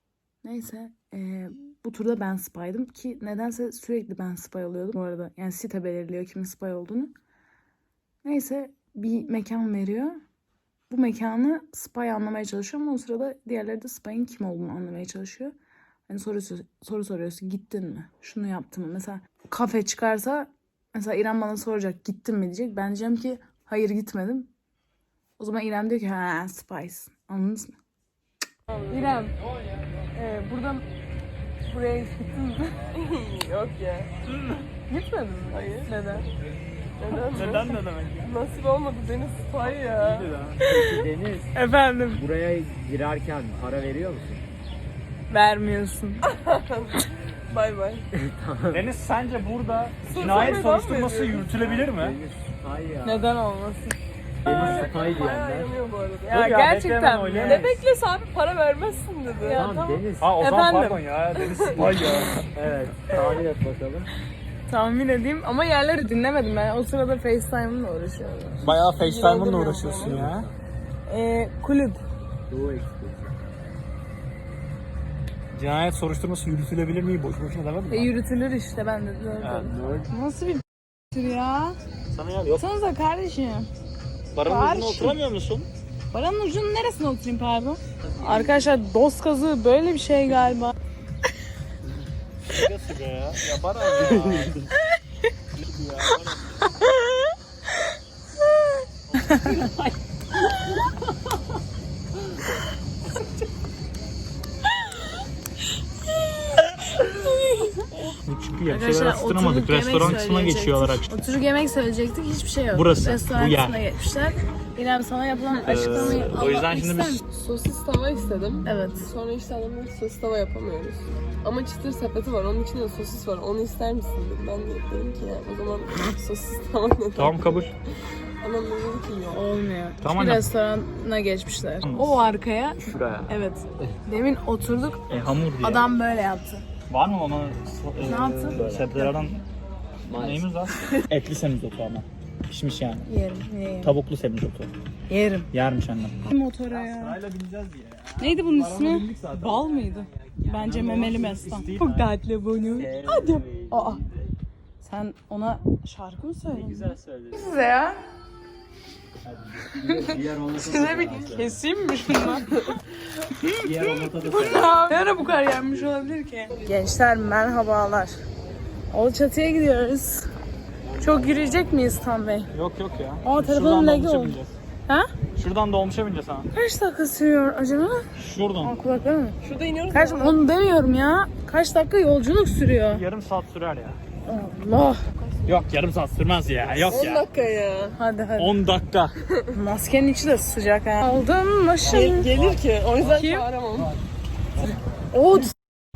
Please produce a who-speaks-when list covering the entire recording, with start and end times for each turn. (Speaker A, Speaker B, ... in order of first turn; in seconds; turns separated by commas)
Speaker A: 0.4-7.1, Speaker A: 8.2-10.2, Speaker A: 10.9-15.6, Speaker A: 16.1-24.5, Speaker A: 25.4-27.8, Speaker B: 28.7-29.3, Speaker A: 28.9-29.4, Speaker A: 30.1-30.9, Speaker A: 31.7-32.8, Speaker B: 32.9-34.1, Speaker C: 34.3-34.6, Speaker A: 34.9-36.3, Speaker B: 35.5-36.3, Speaker B: 37.0-40.3, Speaker A: 37.1-37.8, Speaker C: 37.3-38.3, Speaker C: 40.0-40.8, Speaker D: 40.6-41.6, Speaker A: 41.5-42.2, Speaker D: 42.1-44.4, Speaker A: 45.3-46.3, Speaker B: 46.3-48.1, Speaker D: 48.1-48.9, Speaker C: 48.7-52.2, Speaker B: 50.1-51.4, Speaker D: 50.2-50.7, Speaker D: 51.4-53.3, Speaker A: 53.0-54.9, Speaker D: 54.4-55.7, Speaker B: 54.4-56.4, Speaker C: 56.3-57.8, Speaker A: 56.3-57.8, Speaker B: 57.4-59.6, Speaker A: 59.4-61.0, Speaker D: 59.5-60.4, Speaker C: 60.2-62.5, Speaker B: 61.4-61.8, Speaker D: 62.5-64.1, Speaker A: 64.7-68.8, Speaker C: 68.6-70.5, Speaker B: 69.0-70.3, Speaker D: 70.0-70.5, Speaker A: 71.1-72.0, Speaker D: 72.5-73.3, Speaker C: 75.5-78.1, Speaker A: 77.9-81.8, Speaker C: 79.4-79.7, Speaker D: 79.5-80.1, Speaker C: 82.1-82.6, Speaker A: 82.5-83.7, Speaker C: 84.3-85.7, Speaker A: 84.4-85.2, Speaker A: 86.1-90.8, Speaker D: 88.2-88.5, Speaker C: 92.5-94.5, Speaker D: 94.0-94.7, Speaker C: 95.5-96.6, Speaker C: 99.2-99.6, Speaker A: 99.2-99.6, Speaker D: 99.3-99.9, Speaker C: 108.2-111.1, Speaker A: 108.7-117.2, Speaker C: 112.7-113.8, Speaker C: 115.6-117.2, Speaker B: 117.3-127.4, Speaker A: 118.7-119.1, Speaker C: 127.2-127.7, Speaker B: 128.4-129.5, Speaker A: 129.3-135.1, Speaker C: 130.0-130.5, Speaker C: 131.8-132.2, Speaker D: 132.8-133.3, Speaker C: 135.1-135.9, Speaker A: 135.6-136.7, Speaker C: 136.9-139.4, Speaker A: 138.0-139.2, Speaker D: 138.6-138.9, Speaker D: 140.1-140.4, Speaker C: 140.1-143.1, Speaker A: 143.1-144.0, Speaker C: 143.8-144.7, Speaker A: 145.1-145.5, Speaker C: 145.5-149.7, Speaker A: 146.3-147.2, Speaker A: 148.2-154.0, Speaker D: 149.5-151.9, Speaker C: 150.6-152.2, Speaker D: 152.6-154.3, Speaker B: 153.1-153.4, Speaker A: 154.8-158.0, Speaker D: 156.5-157.6, Speaker D: 159.3-161.6, Speaker A: 159.8-162.6, Speaker B: 162.2-162.7, Speaker A: 163.2-168.2, Speaker D: 163.5-165.9, Speaker A: 168.9-170.3, Speaker D: 170.9-171.9, Speaker A: 171.0-172.5, Speaker C: 172.5-174.6, Speaker A: 173.2-175.1, Speaker C: 175.4-176.5, Speaker A: 176.5-178.1, Speaker C: 178.2-178.8, Speaker A: 178.6-179.4, Speaker B: 179.4-180.4, Speaker A: 179.9-183.1, Speaker C: 182.9-184.0, Speaker A: 184.3-185.0, Speaker B: 185.2-185.6, Speaker C: 185.5-187.3, Speaker B: 186.9-188.0, Speaker A: 188.0-188.7, Speaker C: 188.4-189.2, Speaker A: 189.5-192.4, Speaker B: 191.8-193.9, Speaker A: 193.0-193.5, Speaker A: 195.1-195.6